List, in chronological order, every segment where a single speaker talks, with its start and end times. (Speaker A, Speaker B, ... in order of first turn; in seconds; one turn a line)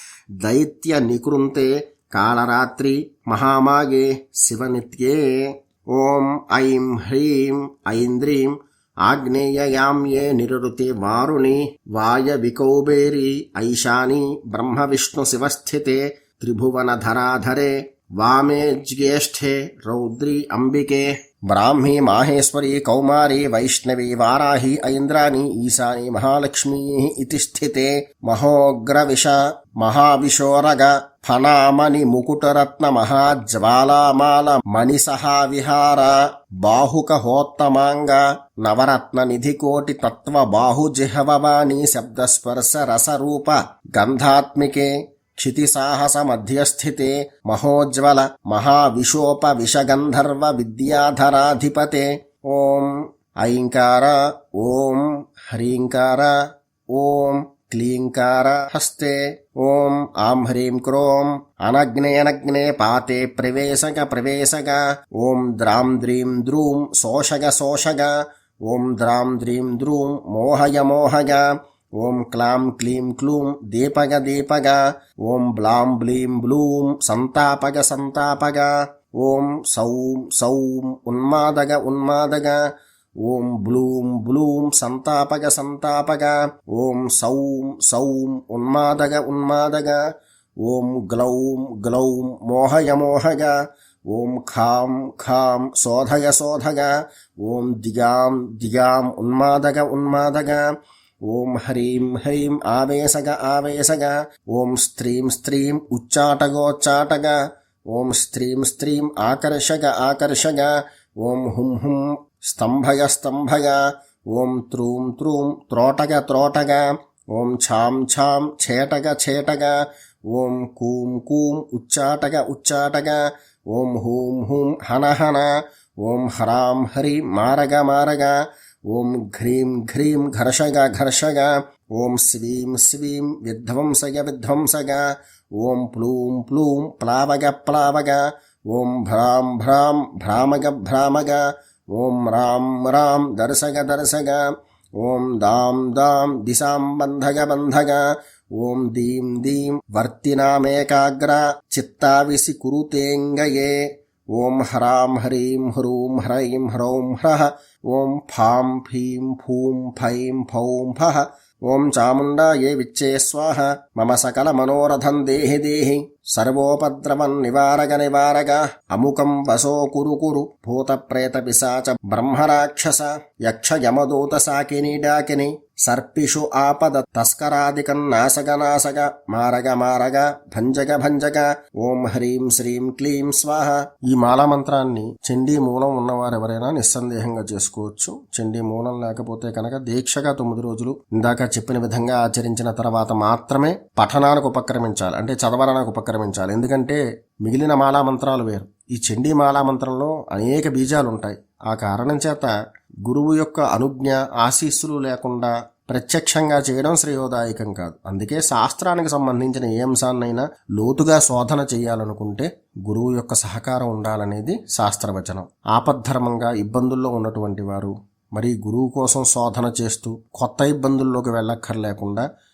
Speaker A: 0.4-56.3
Speaker A: 56.9-71.5
Speaker A: 72.0-82.6
Speaker A: 83.2-90.0
Speaker A: 90.6-93.5
Speaker A: 94.1-100.6
Speaker A: 101.2-107.4
Speaker A: 107.9-125.5
Speaker A: 126.0-128.3
Speaker A: 128.9-135.1
Speaker A: 135.6-144.4
Speaker A: 145.0-148.0
Speaker A: 148.6-153.8
Speaker A: 154.3-202.5
Speaker A: 203.1-222.2